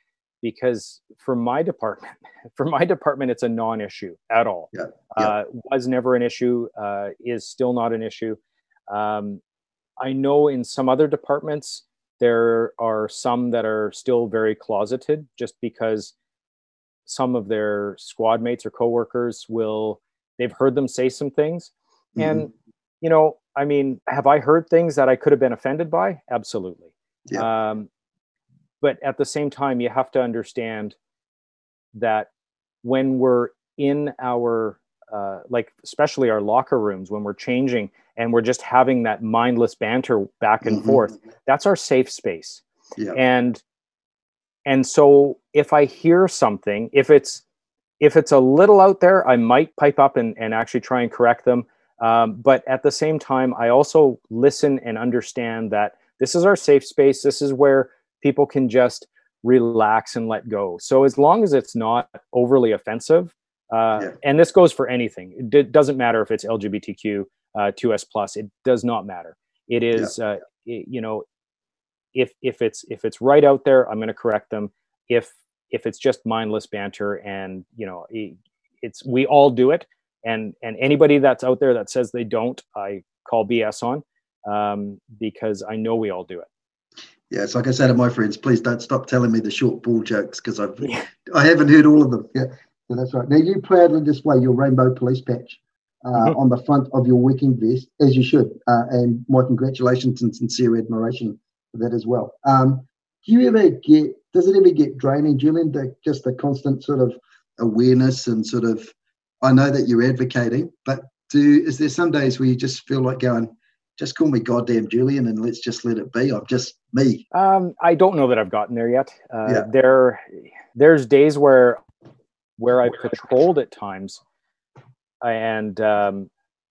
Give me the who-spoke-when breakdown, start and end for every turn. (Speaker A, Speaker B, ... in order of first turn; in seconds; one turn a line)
Speaker A: 0.4-8.4
Speaker B: 4.7-5.3
Speaker A: 8.9-9.4
Speaker A: 10.0-16.1
Speaker A: 17.1-22.5
Speaker B: 22.1-22.4
Speaker A: 23.0-27.9
Speaker A: 28.8-30.9
Speaker A: 31.9-32.3
Speaker A: 32.8-42.6
Speaker B: 40.6-41.0
Speaker A: 43.1-43.6
Speaker A: 44.6-47.4
Speaker A: 48.0-71.2
Speaker A: 72.1-86.5
Speaker B: 87.3-108.9
Speaker B: 109.4-117.2
Speaker A: 117.3-121.8
Speaker A: 122.6-124.2
Speaker A: 125.2-126.3